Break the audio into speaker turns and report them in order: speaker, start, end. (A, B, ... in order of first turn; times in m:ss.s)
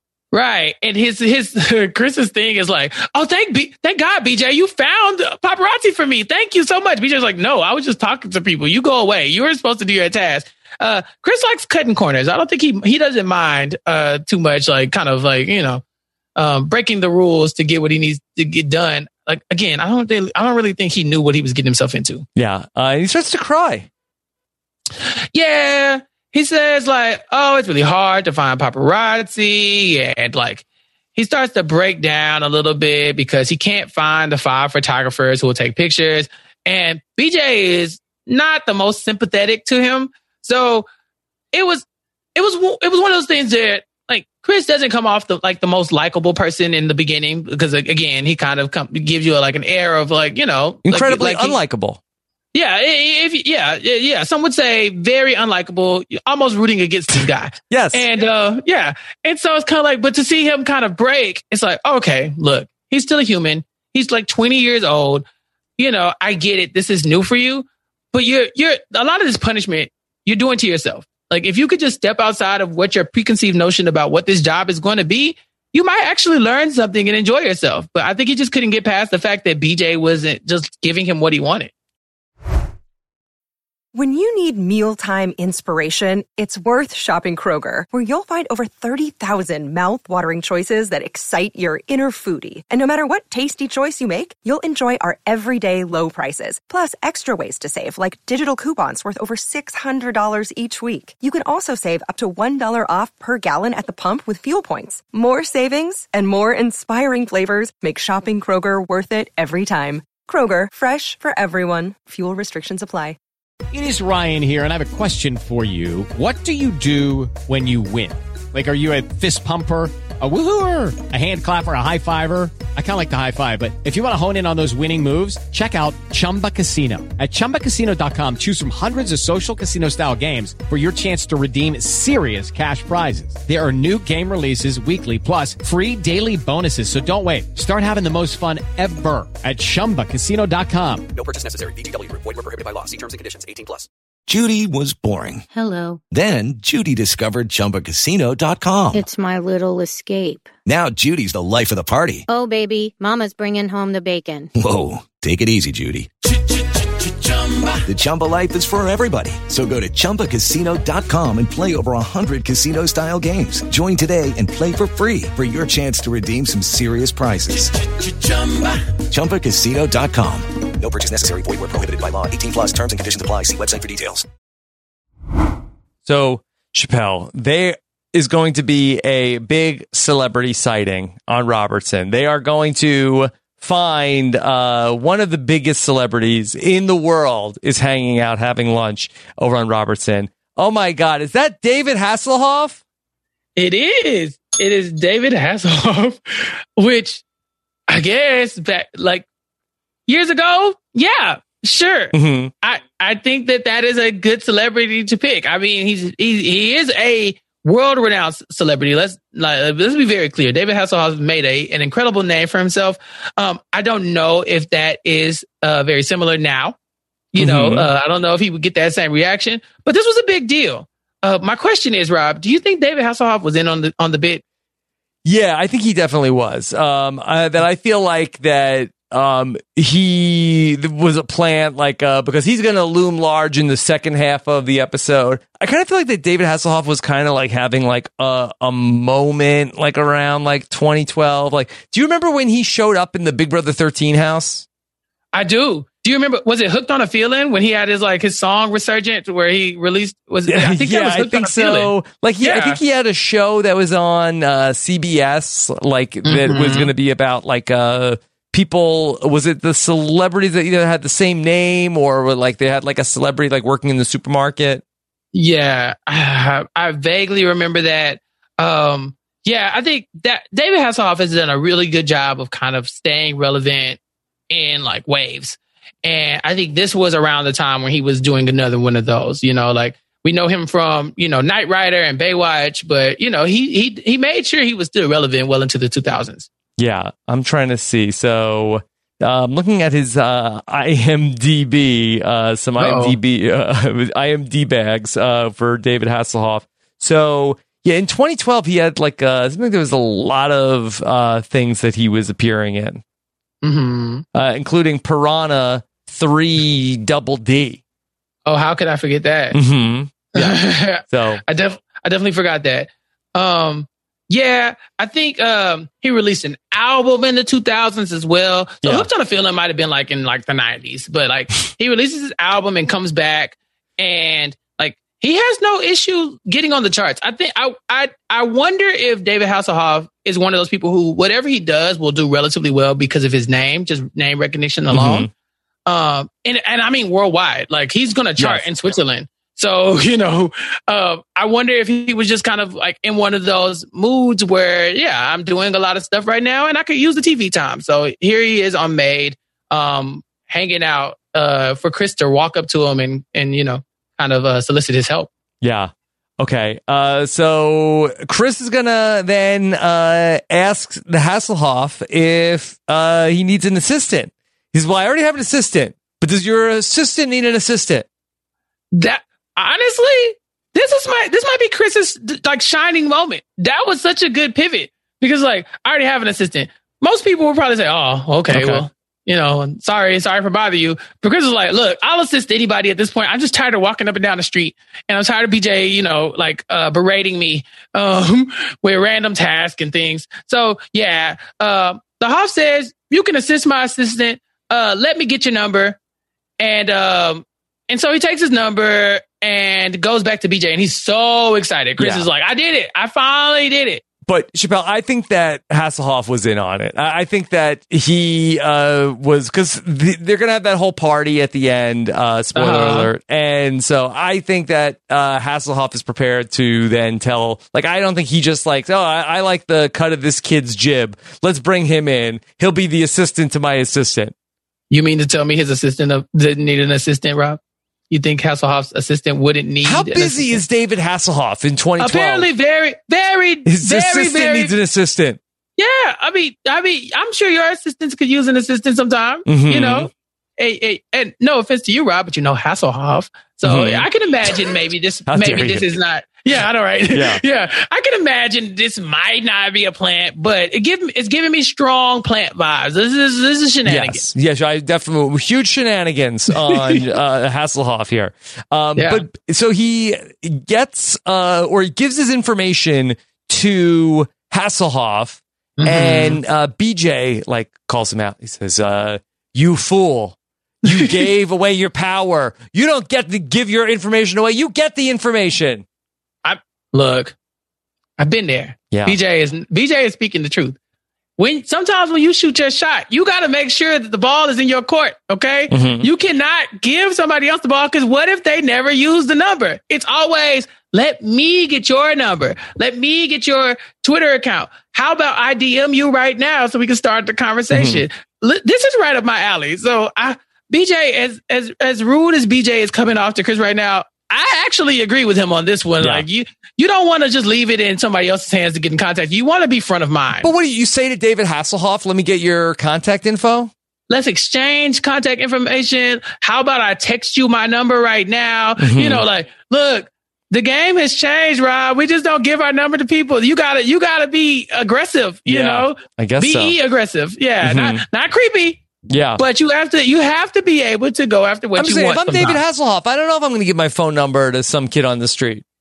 0:00.3-0:15.8 A
0:16.4-0:22.2 A
0:22.4-0:23.9 B
0:25.3-0:30.6 A
0:31.1-0:40.9 A
0:41.5-0:51.6 A
0:50.8-0:52.0 B
0:52.5-1:05.2 A
0:57.7-0:58.0 B
1:05.8-1:21.7 A
1:23.9-1:53.2 C
1:53.7-2:21.1 D
2:21.1-2:25.4 E
2:25.5-2:26.0 F
2:26.1-2:29.0 E
2:28.9-2:30.5 F
2:30.6-2:32.2 E
2:32.3-2:34.5 F
2:34.6-2:36.1 E
2:37.8-2:54.2 E
2:56.0-3:12.8 B
3:13.6-3:17.2 A
3:17.9-3:19.2 A
3:20.1-3:36.8 A
3:22.1-3:22.5 B
3:37.3-3:44.4 A
3:37.4-3:37.9 B
3:45.2-4:04.6 B
4:05.3-4:11.9 A
4:10.5-4:24.8 B
4:12.4-4:12.8 A
4:16.2-4:16.9 A
4:25.3-4:34.0 A
4:34.5-4:46.5 A
4:46.8-5:03.0 B
4:52.8-4:53.2 A
5:03.6-5:04.2 A
5:04.3-5:07.8 B
5:08.4-5:09.6 A
5:09.5-5:11.4 B
5:10.3-5:35.3 A
5:34.9-5:35.3 B
5:35.8-5:55.3 A
5:38.4-5:38.6 B
5:55.6-6:08.1 B
6:08.9-6:36.0 A
6:18.5-6:18.8 B
6:36.6-6:44.0 A
6:42.0-6:42.3 B
6:44.3-7:04.3 B
6:52.5-6:53.1 A
7:04.9-7:07.6 A
7:08.1-7:10.6 A
7:09.8-7:12.5 B
7:12.0-7:14.7 A
7:13.6-7:15.4 B
7:15.8-7:34.2 A
7:19.4-7:20.1 B
7:23.6-7:24.1 B
7:25.3-7:25.9 B
7:27.1-7:27.4 B
7:33.8-7:55.8 B
7:36.7-7:37.0 A
7:39.0-7:39.2 A
7:45.8-7:46.4 A
7:50.9-7:51.1 A
7:56.4-7:57.3 A
7:58.2-8:00.8 A
7:58.9-7:59.2 B
8:01.4-8:30.5 A
8:05.7-8:06.1 B
8:17.7-8:18.0 B
8:30.4-8:33.7 B
8:34.1-8:48.8 A
8:38.8-8:39.2 B
8:45.4-8:46.8 B
8:47.6-8:48.0 B
8:49.1-8:49.4 B
8:49.4-8:52.6 A
8:51.8-8:55.6 B